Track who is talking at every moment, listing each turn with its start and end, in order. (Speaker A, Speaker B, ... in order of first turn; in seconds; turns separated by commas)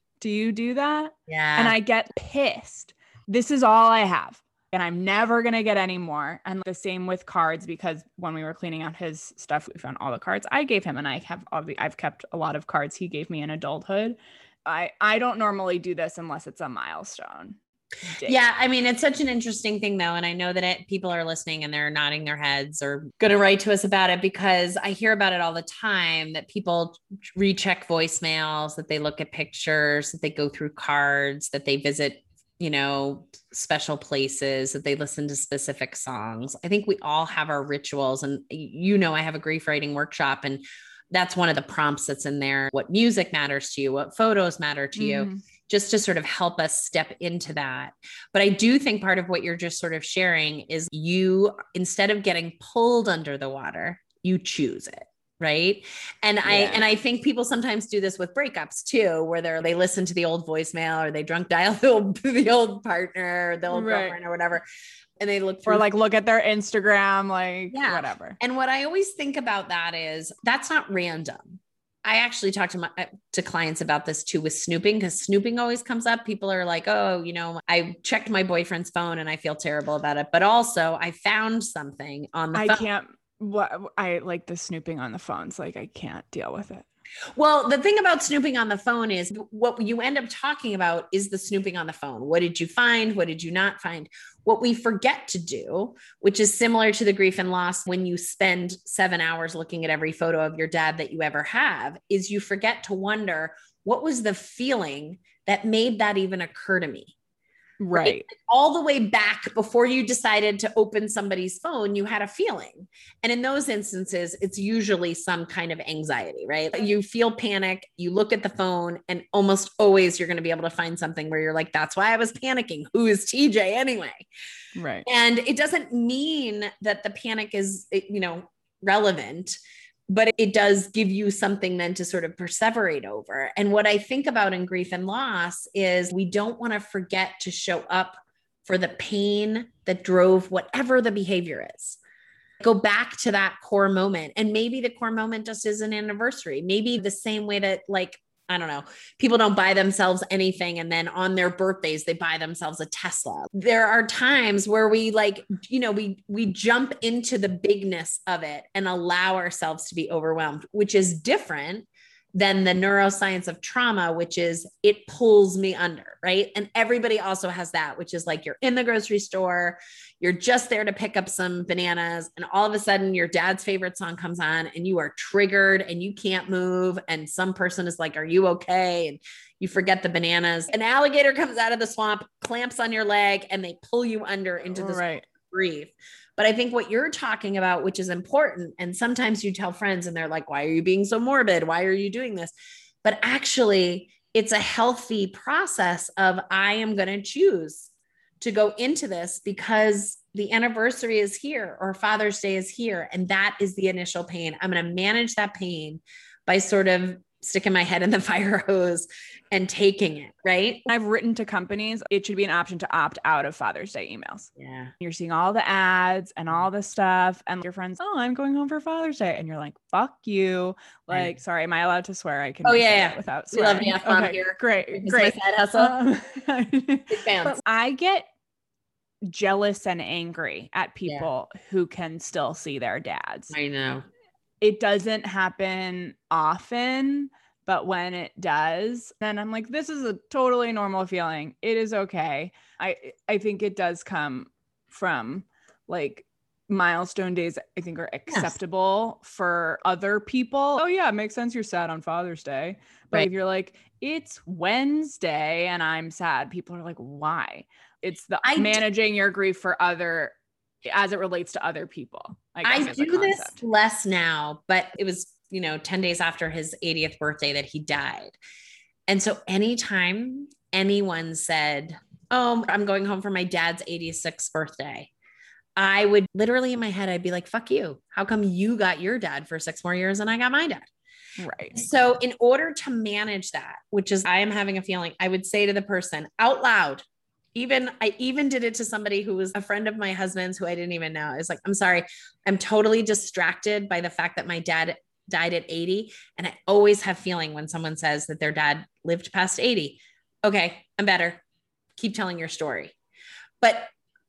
Speaker A: 0.2-18.4, Speaker B: 1.3-1.8, Speaker B: 18.2-64.6, Speaker A: 45.0-45.4, Speaker A: 56.4-56.8, Speaker A: 63.7-64.2, Speaker B: 65.2-65.9, Speaker A: 65.7-68.4, Speaker B: 67.7-82.8, Speaker A: 82.5-86.8, Speaker B: 87.3-107.1, Speaker A: 107.8-108.2, Speaker B: 107.9-124.2, Speaker A: 124.8-125.0, Speaker B: 125.0-129.6, Speaker B: 130.1-142.0, Speaker B: 142.6-192.5, Speaker A: 184.8-185.3, Speaker B: 193.0-210.8, Speaker A: 210.8-228.3, Speaker B: 214.6-214.9, Speaker B: 222.6-225.9, Speaker B: 227.1-227.6, Speaker A: 229.2-233.5, Speaker B: 233.5-234.1, Speaker A: 234.6-260.3, Speaker B: 248.3-248.5, Speaker B: 258.4-258.8, Speaker A: 260.9-263.6, Speaker B: 262.6-268.4, Speaker B: 269.1-275.1, Speaker B: 275.8-280.9, Speaker A: 281.4-281.8, Speaker B: 281.7-287.0, Speaker B: 287.5-301.4, Speaker B: 302.0-302.9, Speaker B: 303.6-303.9